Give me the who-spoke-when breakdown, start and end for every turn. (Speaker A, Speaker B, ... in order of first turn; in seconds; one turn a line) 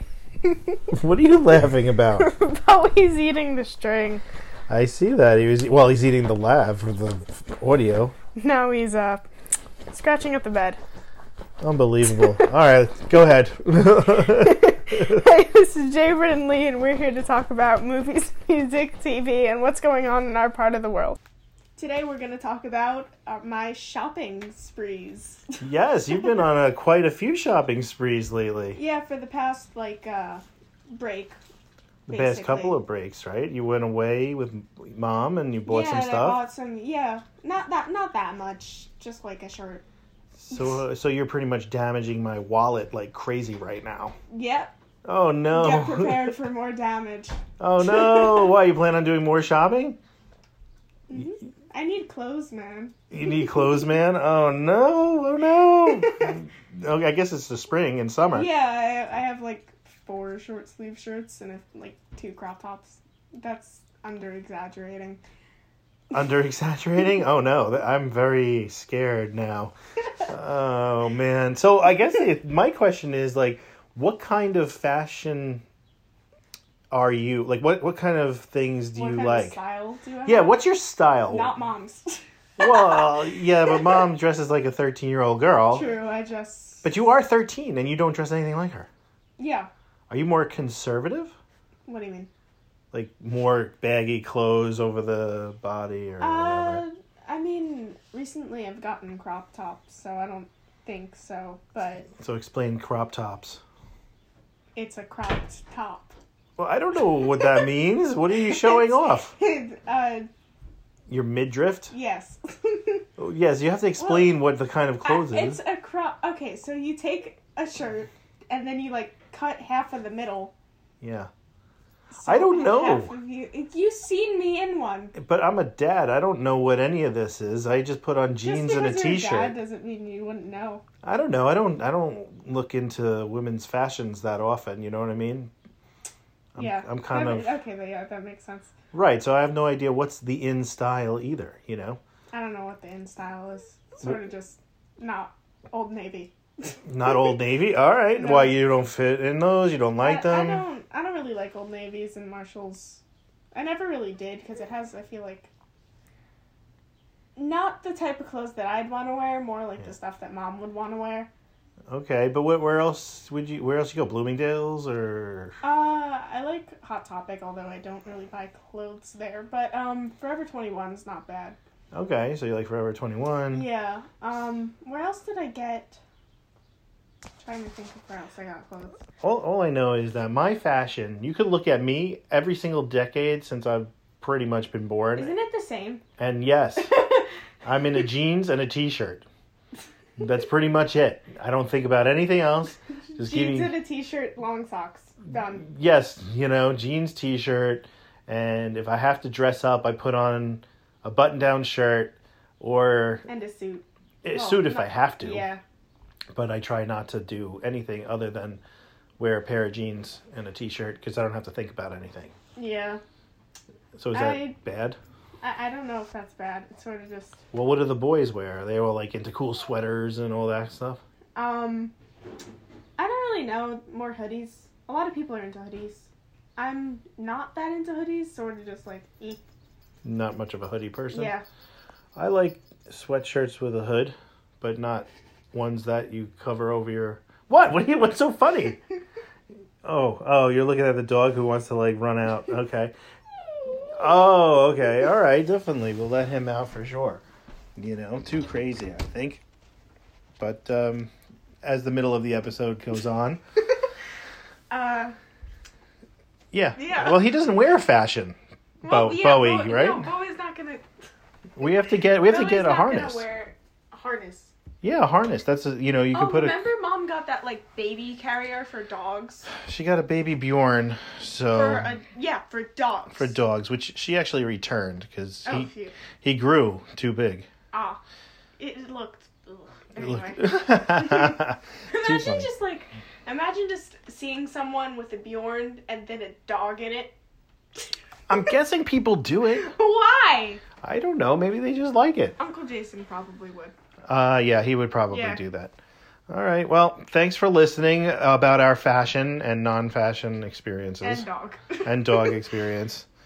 Speaker A: 0.4-0.8
Speaker B: 0.9-2.3
Speaker A: 2.2-4.2
Speaker B: 4.7-8.1
Speaker A: 8.4-9.3
Speaker A: 9.9-10.8
Speaker B: 11.6-15.3
Speaker A: 14.4-21.2
Speaker A: 21.8-25.6
Speaker B: 25.6-28.8
Speaker A: 28.8-31.4
Speaker A: 32.1-32.8
Speaker B: 32.1-36.4
Speaker A: 35.7-39.8
Speaker B: 40.4-44.1
Speaker A: 44.3-44.7
Speaker B: 45.0-46.3
Speaker A: 45.5-48.5
Speaker B: 47.6-50.0
Speaker A: 51.1-53.5
Speaker B: 53.1-58.5
Speaker A: 58.3-65.2
Speaker B: 66.1-69.7
Speaker B: 70.2-75.6
Speaker B: 76.9-79.6
Speaker A: 79.0-80.6
Speaker B: 80.3-81.5
Speaker A: 81.3-83.9
Speaker B: 82.6-86.0
Speaker A: 85.7-86.9
Speaker B: 86.8-88.9
Speaker A: 89.4-89.7
Speaker B: 90.1-91.3
Speaker A: 91.9-92.3
Speaker B: 92.9-96.8
Speaker A: 96.2-102.1
Speaker B: 102.2-103.6
Speaker A: 104.8-106.2
Speaker B: 106.6-109.3
Speaker A: 108.5-110.3
Speaker B: 111.1-111.9
Speaker A: 111.9-113.0
Speaker B: 113.2-115.6
Speaker A: 114.0-114.4
Speaker A: 115.0-120.5
Speaker B: 121.0-121.3
Speaker A: 122.1-125.1
Speaker B: 122.2-123.1
Speaker B: 125.2-129.6
Speaker A: 128.4-130.8
Speaker B: 131.0-135.5
Speaker B: 136.6-137.6
Speaker A: 136.6-138.7
Speaker B: 138.9-142.0
Speaker A: 142.3-147.2
Speaker B: 146.9-150.7
Speaker A: 148.2-148.6
Speaker A: 150.0-153.0
Speaker A: 153.5-155.5
Speaker A: 157.4-161.3
Speaker B: 161.9-165.6
Speaker A: 165.6-171.6
Speaker B: 171.9-173.7
Speaker A: 173.5-176.0
Speaker A: 177.4-179.0
Speaker B: 179.2-185.3
Speaker A: 185.2-186.0
Speaker B: 186.2-187.0
Speaker A: 186.8-187.3
Speaker B: 187.6-189.3
Speaker B: 190.2-193.8
Speaker A: 193.1-195.7
Speaker B: 195.6-203.3
Speaker A: 203.3-205.6
Speaker B: 204.2-205.5
Speaker B: 206.3-208.6
Speaker B: 209.2-212.3
Speaker A: 212.6-213.0
Speaker B: 214.0-215.0
Speaker A: 214.1-214.6
Speaker A: 215.4-217.4
Speaker B: 217.5-221.0
Speaker A: 221.3-221.9
Speaker A: 223.0-229.4
Speaker B: 230.0-231.3
Speaker A: 231.1-231.4
Speaker B: 232.2-238.8
Speaker B: 239.8-242.9
Speaker B: 243.9-247.2
Speaker B: 247.8-249.4
Speaker B: 250.4-251.1
Speaker B: 251.6-253.4
Speaker A: 254.7-255.2
Speaker B: 256.5-260.1
Speaker A: 256.8-257.2
Speaker A: 258.8-260.9
Speaker B: 261.6-263.2
Speaker A: 262.2-264.5
Speaker B: 264.8-266.7
Speaker A: 266.1-269.5
Speaker B: 269.5-271.9
Speaker A: 271.5-273.3
Speaker B: 273.1-277.5
Speaker A: 275.4-275.9
Speaker A: 277.7-278.0
Speaker A: 278.6-287.1
Speaker B: 280.0-282.5
Speaker B: 288.3-289.7
Speaker A: 289.5-290.6
Speaker B: 290.8-292.4
Speaker A: 292.4-293.7
Speaker B: 294.1-295.8
Speaker A: 295.1-295.4
Speaker B: 296.3-301.3
Speaker A: 301.0-302.4
Speaker B: 301.8-303.1